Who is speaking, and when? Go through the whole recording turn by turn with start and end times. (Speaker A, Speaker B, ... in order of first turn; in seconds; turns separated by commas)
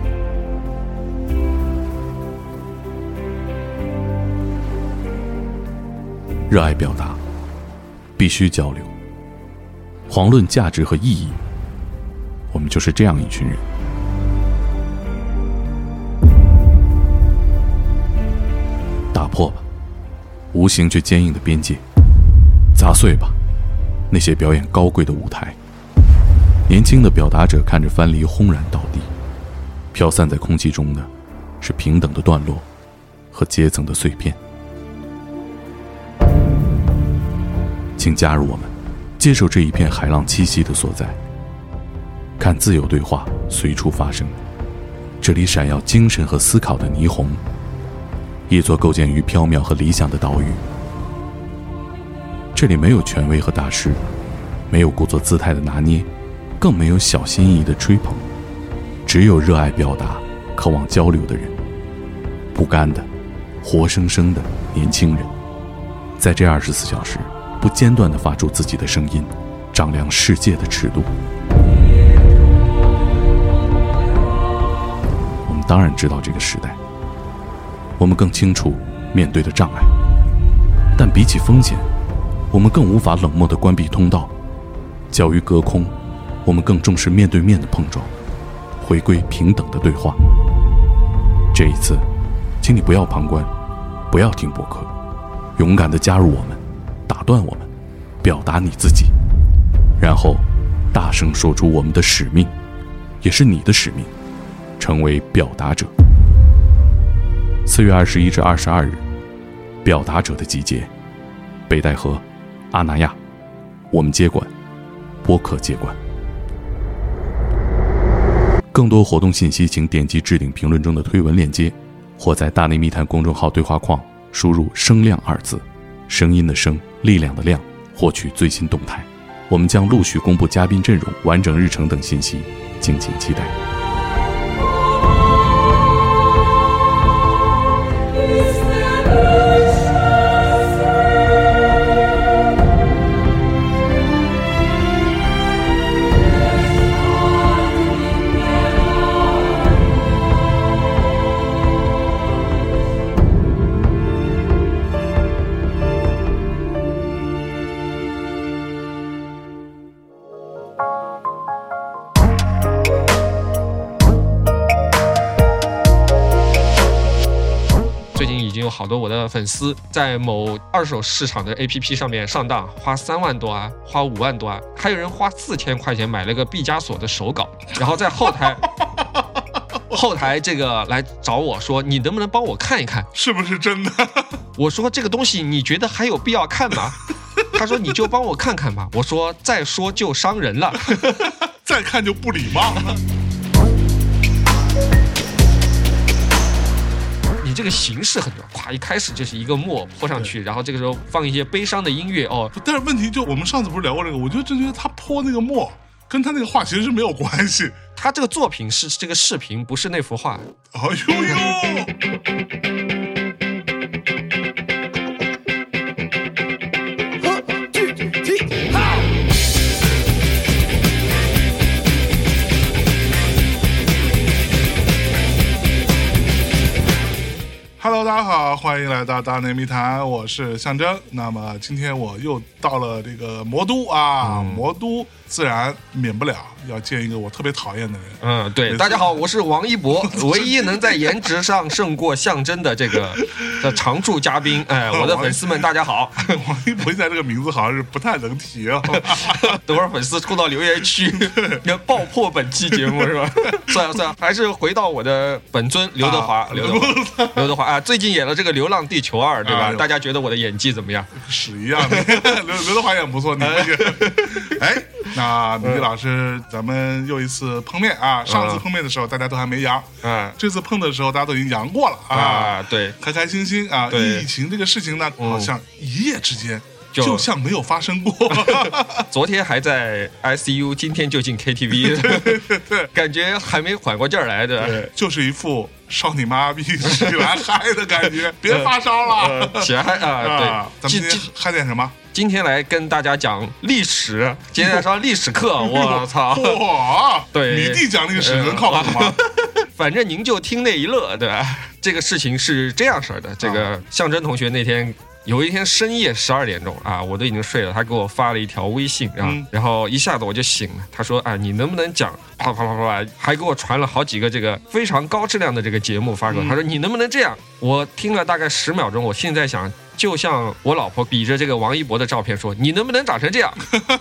Speaker A: 6.5-7.2, Speaker A: 8.2-8.9, Speaker A: 10.1-11.4, Speaker A: 12.5-13.6, Speaker A: 19.1-19.6, Speaker A: 20.5-21.8, Speaker A: 22.7-23.3, Speaker A: 24.1-25.6, Speaker A: 26.7-29.1, Speaker A: 29.9-31.1, Speaker A: 31.6-32.7, Speaker A: 33.3-34.4, Speaker A: 38.0-41.2, Speaker A: 42.4-44.4, Speaker A: 45.2-47.4, Speaker A: 48.5-50.6, Speaker A: 52.5-54.0, Speaker A: 54.7-56.1, Speaker A: 56.6-58.2, Speaker A: 59.0-61.5, Speaker A: 62.5-63.1, Speaker A: 63.6-65.3, Speaker A: 66.2-71.1, Speaker A: 75.5-76.8, Speaker A: 78.0-79.9, Speaker A: 81.0-81.9, Speaker A: 82.5-84.3, Speaker A: 85.1-88.1, Speaker A: 88.8-90.2, Speaker A: 91.5-92.0, Speaker A: 92.6-93.5, Speaker A: 94.1-94.9, Speaker A: 95.5-97.7, Speaker A: 98.2-99.1, Speaker A: 100.0-102.5, Speaker A: 103.2-104.1, Speaker A: 104.8-105.9, Speaker A: 107.7-109.0, Speaker A: 109.8-110.9, Speaker A: 111.7-113.2, Speaker A: 113.9-114.5, Speaker A: 115.2-116.0, Speaker A: 118.7-133.5, Speaker B: 168.1-178.6, Speaker B: 179.9-183.1, Speaker C: 183.1-184.4, Speaker B: 184.6-191.2, Speaker C: 191.6-193.0, Speaker B: 197.4-202.5, Speaker C: 202.5-207.8, Speaker B: 207.9-210.5, Speaker C: 210.7-211.9, Speaker C: 227.8-239.2, Speaker B: 234.2-234.6, Speaker B: 238.2-246.4, Speaker C: 240.0-241.2, Speaker C: 244.9-245.6, Speaker C: 246.2-249.5, Speaker B: 248.9-261.1, Speaker C: 251.1-251.6, Speaker C: 256.0-257.5, Speaker C: 259.4-259.9, Speaker C: 261.2-279.1, Speaker B: 261.8-262.4, Speaker B: 263.4-264.6, Speaker B: 268.2-268.6, Speaker B: 270.0-270.4, Speaker B: 272.1-273.0, Speaker B: 273.9-274.3, Speaker B: 275.2-275.5, Speaker B: 276.9-277.2, Speaker B: 278.3-284.8, Speaker C: 281.8-282.9, Speaker C: 284.6-292.0, Speaker B: 286.8-287.3, Speaker B: 288.4-291.3, Speaker B: 292.1-296.6, Speaker C: 294.6-294.9, Speaker C: 295.6-299.2, Speaker B: 297.3-323.6, Speaker C: 309.2-309.5, Speaker C: 316.3-316.6